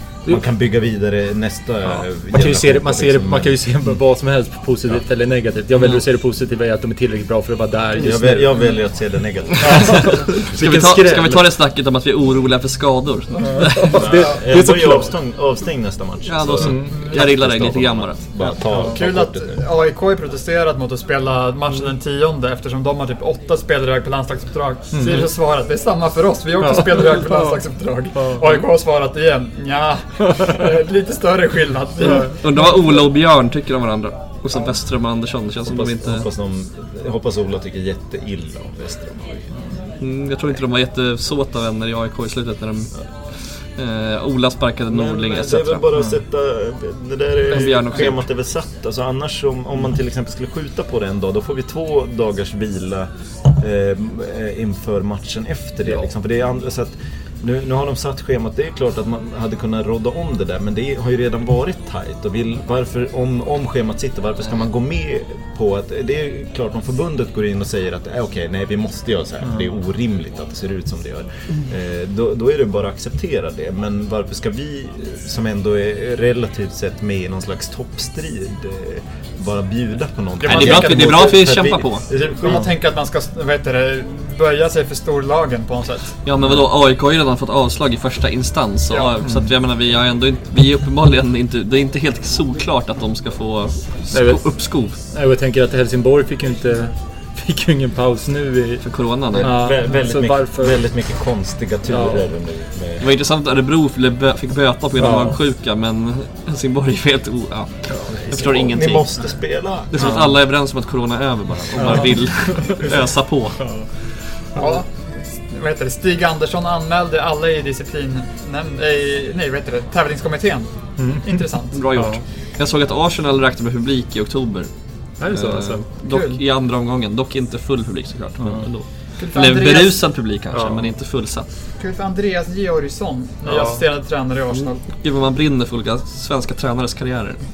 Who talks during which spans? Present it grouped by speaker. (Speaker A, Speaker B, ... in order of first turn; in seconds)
Speaker A: 0.2-3.9, 8.0-10.5, 13.9-19.6, 35.6-39.5, 44.9-82.6, 99.3-103.1, 107.9-110.2
Speaker B: 2.3-8.7, 9.6-11.4, 13.4-15.1, 16.6-16.9, 24.9-25.3, 26.6-27.6, 89.2-89.5, 94.1-94.5, 95.1-98.8, 99.4-100.8, 101.9-102.3, 105.0-105.4, 111.8-112.9, 121.0-121.3, 121.9-122.2, 125.2-125.8, 130.5-130.9, 133.4-133.8
Speaker C: 9.6-14.0, 16.3-18.2, 32.1-36.3, 40.0-42.9, 43.5-45.8, 47.5-48.2, 80.4-82.0, 86.2-95.0, 98.8-99.6, 103.0-109.1, 109.9-113.6, 121.7-124.7, 125.3-131.5, 134.9-137.4
Speaker D: 18.8-32.4, 80.4-81.4, 82.1-86.2, 114.5-121.8, 126.0-126.4, 129.2-130.0, 131.8-134.8